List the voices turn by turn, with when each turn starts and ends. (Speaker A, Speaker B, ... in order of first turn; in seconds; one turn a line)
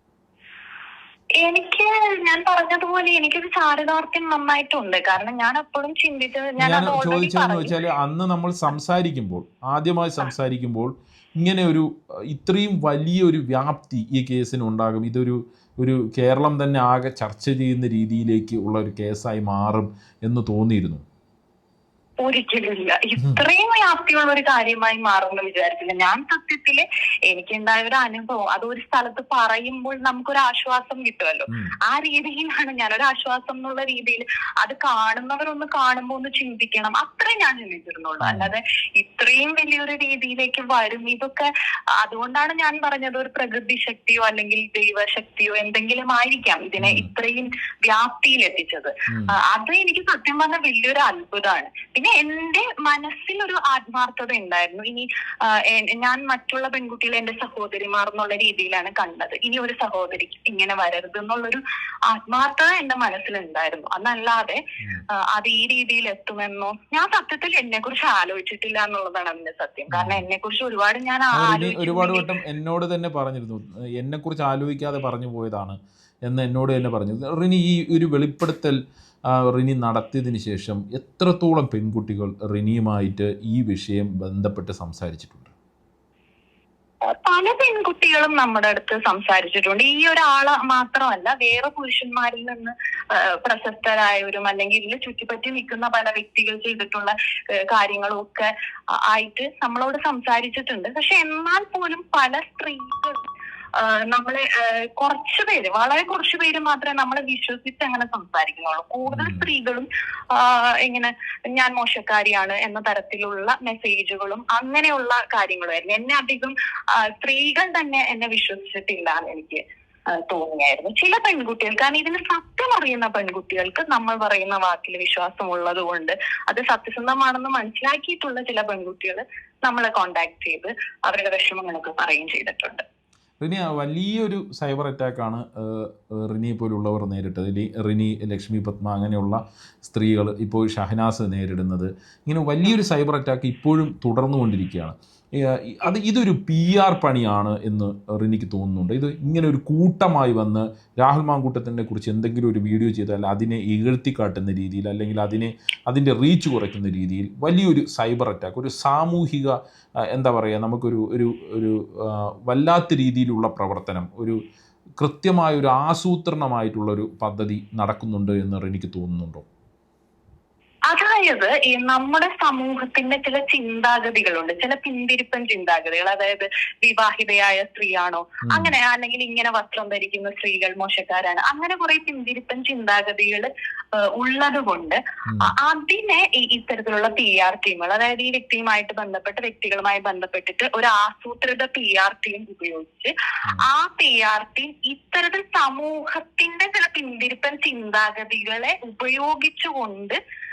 Speaker A: 1.4-7.8
Speaker B: 6.6-21.0
Speaker A: 22.2-41.5
Speaker B: 38.2-38.5
Speaker A: 42.0-72.2
Speaker B: 46.8-47.1
Speaker B: 69.9-70.2
Speaker B: 71.3-85.5
Speaker A: 87.1-103.2
Speaker A: 103.8-132.8
Speaker B: 109.1-109.5
Speaker B: 133.4-164.4
Speaker B: 165.0-169.4
Speaker A: 170.9-200.2
Speaker B: 178.5-178.7